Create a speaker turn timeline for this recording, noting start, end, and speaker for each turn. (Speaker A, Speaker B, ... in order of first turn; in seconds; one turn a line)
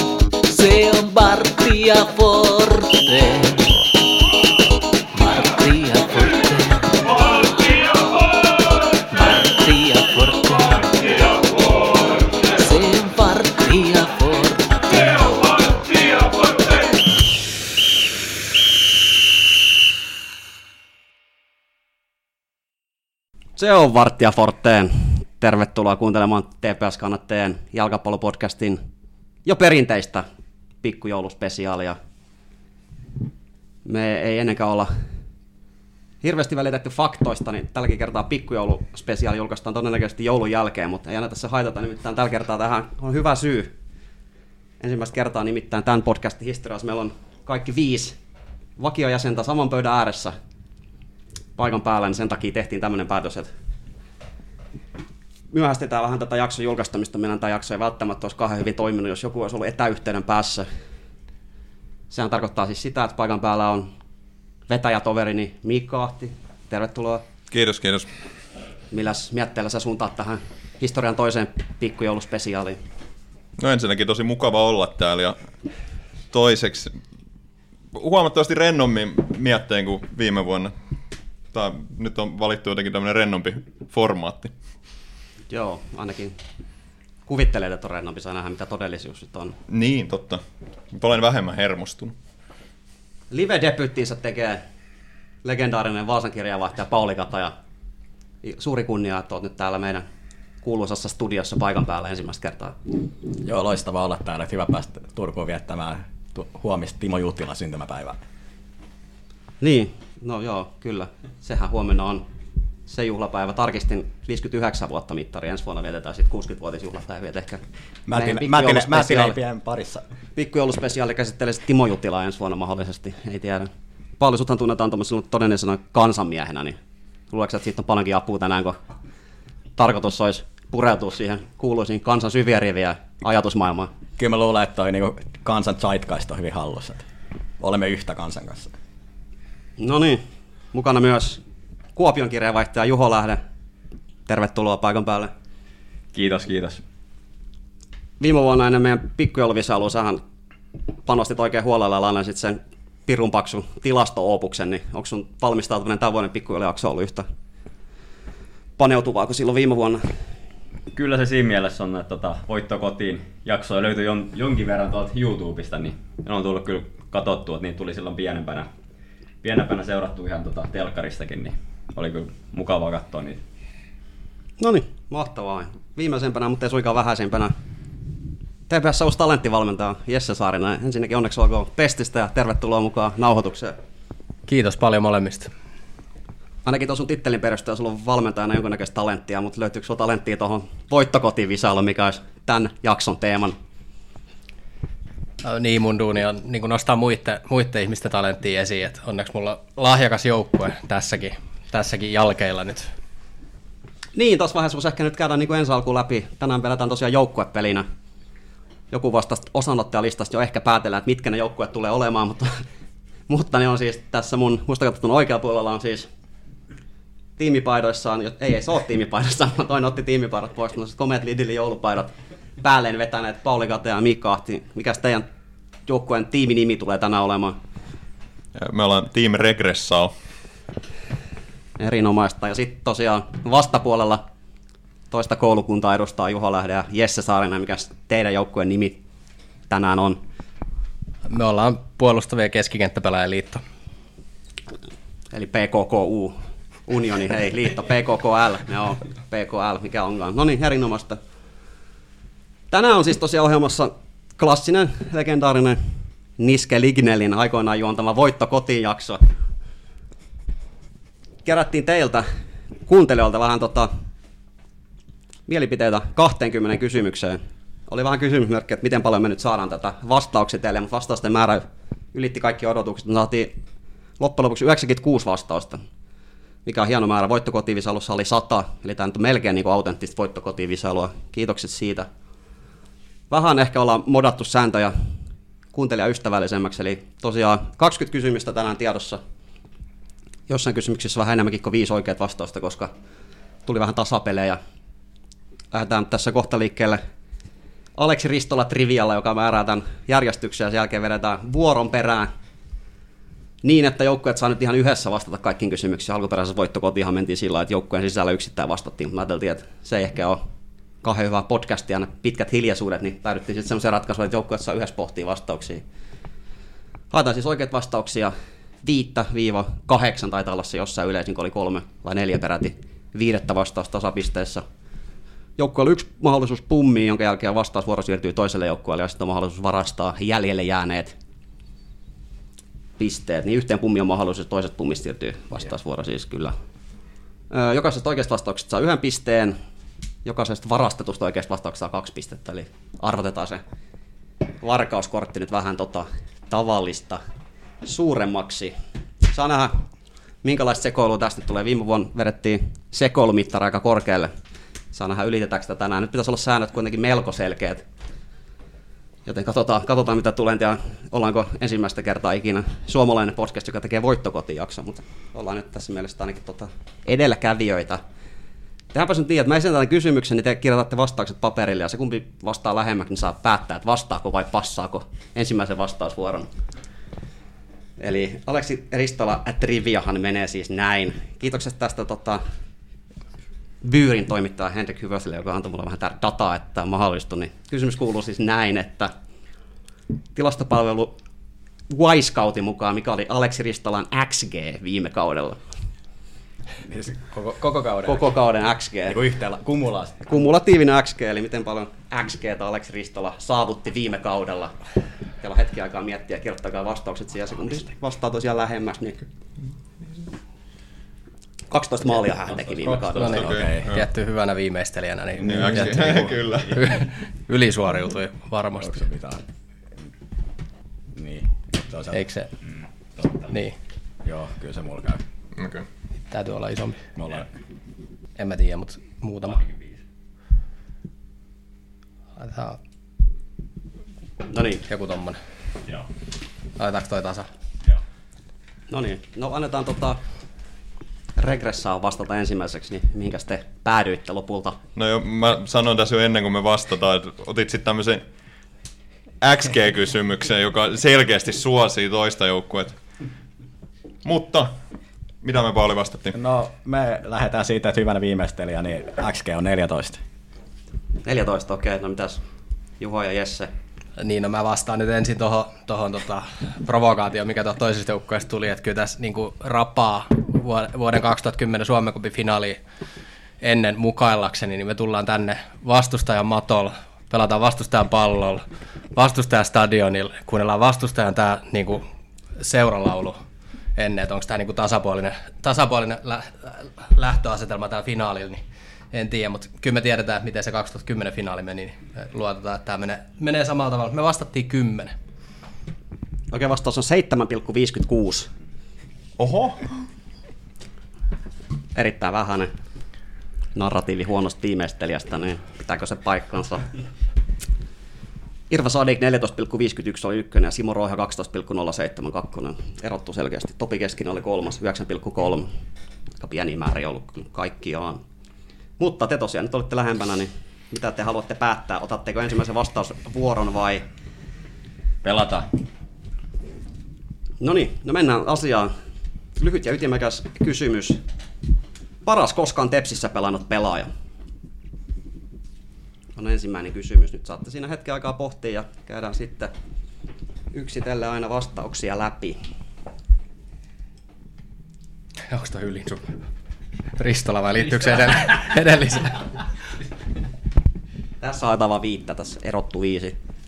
Speaker A: 0.5-3.8
Speaker A: 5.2-7.5
Speaker A: 9.1-11.3
Speaker A: 12.5-15.6
Speaker B: 23.6-28.8
Speaker B: 29.4-30.3
Speaker B: 30.8-32.0
Speaker B: 33.9-34.9
Speaker B: 36.2-43.7
Speaker B: 44.8-48.2
Speaker B: 48.8-50.4
Speaker B: 51.6-53.5
Speaker B: 55.5-60.7
Speaker B: 62.1-63.9
Speaker B: 64.7-67.2
Speaker C: 67.5-68.1
Speaker B: 68.9-72.8
Speaker C: 73.6-75.4
Speaker C: 76.3-77.0
Speaker C: 77.9-80.7
Speaker C: 81.5-84.5
Speaker B: 85.5-86.4
Speaker B: 87.3-89.6
Speaker C: 89.7-92.2
Speaker B: 93.3-94.6
Speaker B: 95.4-97.5
Speaker B: 98.4-100.0
Speaker B: 100.6-102.8
Speaker D: 103.4-108.2
Speaker B: 109.6-112.3
Speaker B: 112.9-117.6
Speaker D: 118.1-120.0
Speaker B: 118.1-119.4
Speaker B: 120.4-126.8
Speaker B: 127.3-128.8
Speaker B: 129.8-133.9
Speaker D: 134.2-137.1
Speaker D: 137.6-138.7
Speaker B: 139.8-141.4
Speaker B: 141.9-143.4
Speaker B: 144.3-145.3
Speaker E: 146.1-146.8
Speaker B: 148.2-150.2
Speaker B: 151.1-157.3
Speaker B: 158.8-160.1
Speaker E: 160.9-168.7
Speaker E: 169.4-173.4
Speaker B: 174.6-177.5
Speaker B: 178.7-183.8
Speaker F: 184.5-185.5
Speaker B: 186.7-193.6
Speaker F: 195.4-202.9
Speaker B: 204.2-207.9
Speaker B: 208.9-212.6
Speaker B: 213.3-216.1
Speaker B: 217.4-225.3
Speaker B: 225.8-227.6
Speaker C: 228.6-230.1
Speaker B: 231.8-234.2
Speaker B: 235.1-239.0
Speaker B: 239.7-240.2
Speaker F: 241.3-243.6
Speaker B: 245.3-251.2
Speaker B: 252.7-255.8
Speaker B: 256.4-259.2
Speaker B: 261.4-262.3
Speaker B: 262.9-263.9
Speaker B: 265.5-273.5
Speaker B: 274.2-275.8
Speaker B: 276.6-282.1
Speaker B: 283.3-284.9
Speaker B: 285.7-289.2
Speaker B: 290.5-292.9
Speaker B: 293.6-294.6
Speaker B: 295.7-297.0
Speaker B: 298.0-302.3
Speaker B: 303.6-310.4
Speaker B: 311.0-315.8
Speaker B: 317.1-324.6
Speaker B: 325.6-331.1
Speaker B: 333.0-336.6
Speaker B: 337.5-339.6
Speaker B: 340.2-343.6
Speaker B: 344.6-347.2
Speaker B: 347.8-348.7
Speaker B: 349.3-349.7
Speaker B: 350.4-354.3
Speaker B: 354.9-357.9
Speaker B: 359.3-368.0
Speaker B: 368.9-376.5
Speaker B: 378.0-382.4
Speaker B: 383.8-389.1
Speaker B: 390.4-391.1
Speaker B: 391.9-395.6
Speaker D: 396.8-398.3
Speaker B: 398.1-399.2
Speaker D: 399.1-400.2
Speaker B: 400.3-404.8
Speaker B: 405.4-409.2
Speaker B: 411.7-413.5
Speaker E: 412.5-413.2
Speaker F: 413.2-419.1
Speaker C: 413.2-414.1
Speaker D: 413.3-413.9
Speaker D: 415.4-416.4
Speaker C: 415.4-417.0
Speaker D: 418.8-419.4
Speaker D: 421.1-422.2
Speaker F: 422.1-422.5
Speaker E: 423.2-423.5
Speaker F: 423.5-423.8
Speaker D: 424.2-425.2
Speaker C: 425.6-425.9
Speaker F: 426.3-427.0
Speaker D: 427.2-427.5
Speaker F: 428.4-429.6
Speaker E: 429.5-430.0
Speaker F: 432.4-432.8
Speaker B: 434.5-434.8
Speaker F: 434.9-435.4
Speaker F: 436.8-437.5
Speaker B: 438.9-440.2
Speaker B: 441.4-444.8
Speaker C: 444.9-448.3
Speaker C: 449.4-453.0
Speaker C: 454.2-454.8
Speaker C: 455.4-456.4
Speaker D: 456.3-460.2
Speaker B: 461.2-462.4
Speaker B: 463.0-463.7
Speaker F: 464.2-472.8
Speaker F: 473.6-482.1
Speaker F: 482.6-483.4
Speaker F: 484.0-495.1
Speaker B: 496.5-498.5
Speaker C: 499.4-499.9
Speaker B: 501.9-502.7
Speaker B: 503.8-506.9
Speaker B: 508.7-515.7
Speaker B: 516.4-518.2
Speaker B: 519.0-524.0
Speaker E: 525.2-525.7
Speaker B: 527.6-528.9
Speaker B: 529.6-531.2
Speaker B: 532.2-534.1
Speaker B: 536.4-539.7
Speaker B: 540.7-542.6
Speaker F: 545.5-546.4
Speaker F: 547.2-549.5
Speaker B: 551.4-553.4